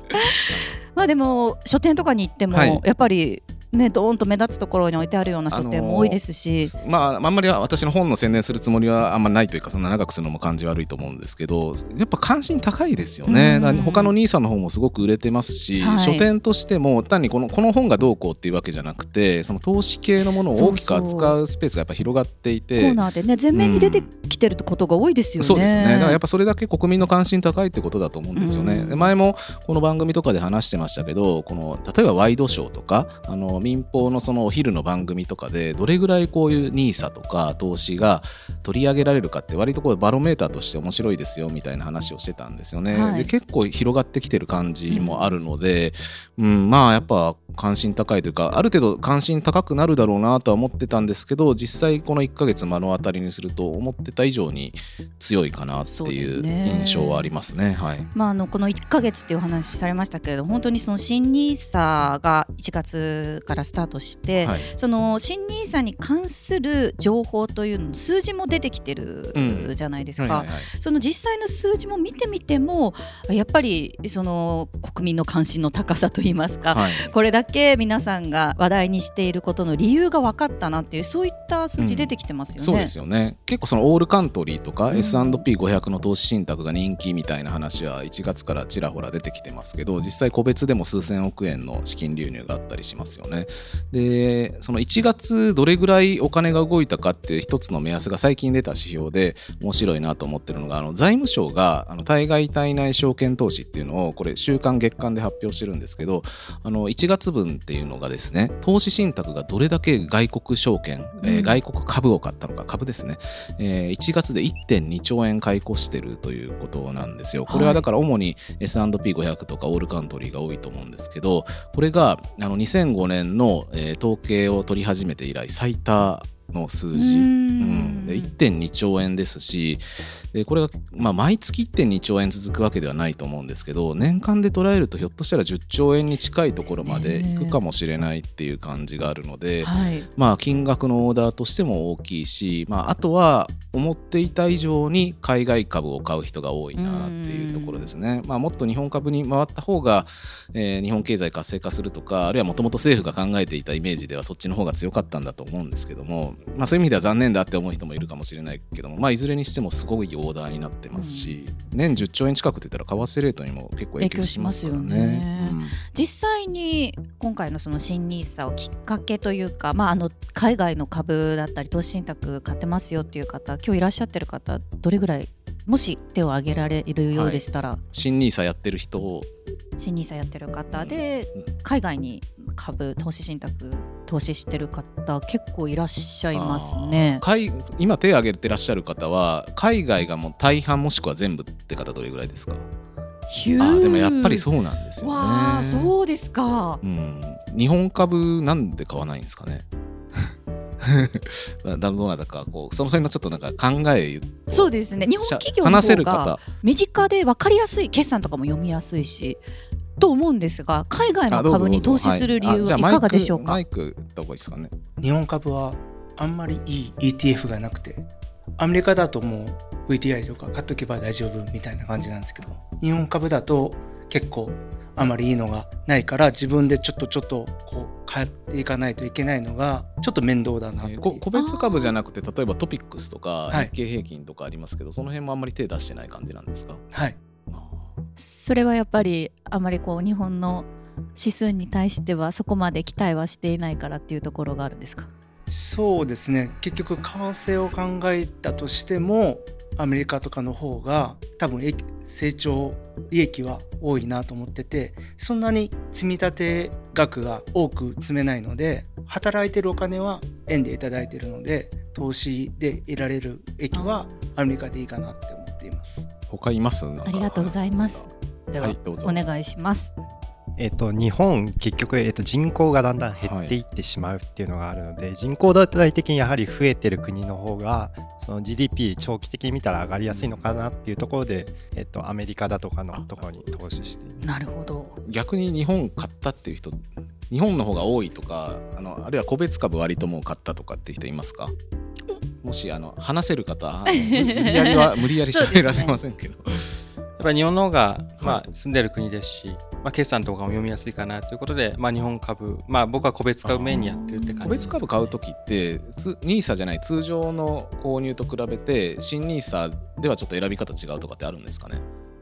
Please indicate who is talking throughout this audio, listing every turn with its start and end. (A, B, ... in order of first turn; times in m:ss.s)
0:00.1-0:06.7 A
0:00.4-0:00.8 B
0:02.5-0:02.8 B
0:05.5-0:23.0 B
0:13.3-0:14.1 A
0:15.8-0:16.3 A
0:20.5-0:21.4 A
0:22.8-0:26.2 A
0:23.5-0:24.1 B
0:25.4-0:58.1 B
0:28.4-0:29.1 A
0:42.9-0:43.3 A
0:44.9-0:45.3 A
0:55.9-0:57.3 A
0:58.2-1:22.9 A
1:04.4-1:04.7 B
1:09.3-1:10.7 B
1:16.7-1:17.2 B
1:21.8-2:45.8 B
1:24.9-1:25.4 A
1:51.2-1:51.6 A
1:57.5-1:57.8 A
2:06.9-2:08.3 A
2:16.3-2:17.6 A
2:19.6-2:20.1 A
2:26.8-2:27.9 A
2:40.9-2:41.4 A
2:44.0-2:57.8 A
2:57.1-2:59.3 B
2:59.8-3:07.2 A
3:00.7-3:01.5 B
3:06.3-3:12.7 B
3:13.3-3:14.5 A
3:13.6-3:15.9 B
3:15.0-3:16.8 A
3:16.8-3:26.4 B
3:24.5-3:29.4 A
3:30.0-3:33.6 A
3:31.3-3:34.7 B
3:35.0-3:51.2 C
3:50.8-3:56.8 B
3:51.3-3:51.9 A
3:56.9-3:57.2 C
3:57.5-3:58.0 B
3:58.2-4:05.1 A
4:05.5-4:26.1 C
4:26.3-4:29.2 B
4:27.0-4:30.0 A
4:30.6-4:44.3 D
4:33.2-4:33.6 B
4:40.1-4:40.4 B
4:42.9-4:43.7 B
4:44.2-4:45.0 A
4:45.0-4:51.5 B
4:52.4-4:56.8 B
4:53.9-4:56.0 A
4:57.2-5:05.2 E
4:58.2-4:58.5 B
5:03.4-5:11.8 B
5:03.7-5:04.7 A